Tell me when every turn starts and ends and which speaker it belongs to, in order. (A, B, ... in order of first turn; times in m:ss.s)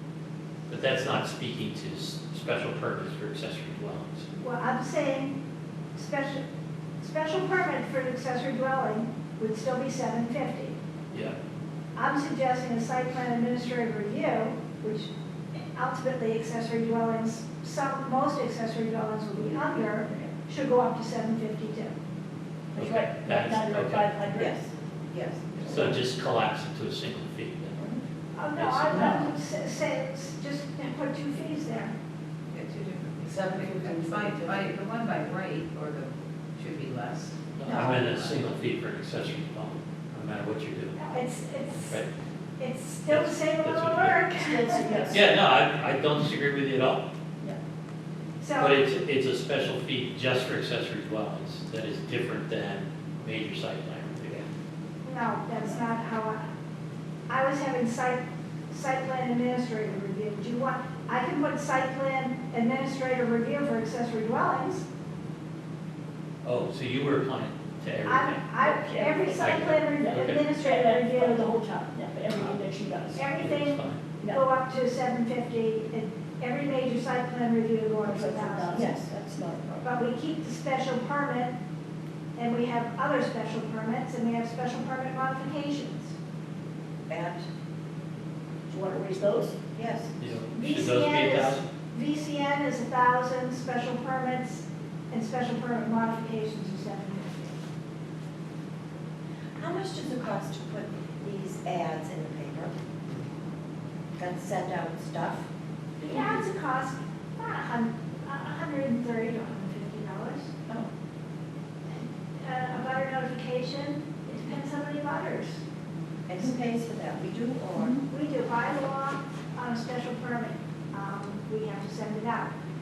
0:00.7-0:04.3 A
0:04.4-0:05.4 B
0:06.0-0:06.4 B
0:07.0-0:10.7 B
0:12.0-0:15.1 B
0:15.7-0:21.9 B
0:22.7-0:24.5 C
0:22.8-0:24.1 A
0:24.3-0:26.0 D
0:25.6-0:27.8 A
0:28.3-0:31.9 B
0:28.5-0:29.2 A
0:28.9-0:29.3 C
0:32.5-0:38.4 E
0:37.6-0:41.0 A
0:41.0-0:42.0 B
0:42.6-0:45.1 B
0:43.1-0:44.3 A
0:44.4-0:45.2 C
0:45.1-0:47.0 A
0:48.4-0:48.8 B
0:48.6-0:54.4 A
0:55.0-0:56.4 B
0:57.3-1:04.8 B
1:06.4-1:08.5 A
1:08.0-1:11.4 B
1:08.6-1:13.2 C
1:09.4-1:10.4 A
1:13.1-1:18.8 B
1:13.4-1:14.1 A
1:18.0-1:19.5 C
1:18.7-1:19.9 D
1:19.8-1:21.6 B
1:22.4-1:26.1 B
1:27.1-1:27.5 D
1:28.7-1:29.6 C
1:29.7-1:30.1 D
1:30.2-1:31.6 A
1:30.5-1:37.6 B
1:39.6-1:42.7 D
1:44.2-1:45.4 D
1:46.0-1:46.3 A
1:46.0-1:50.5 B
1:52.0-1:55.6 B
1:56.3-1:58.0 D
1:57.9-2:02.5 B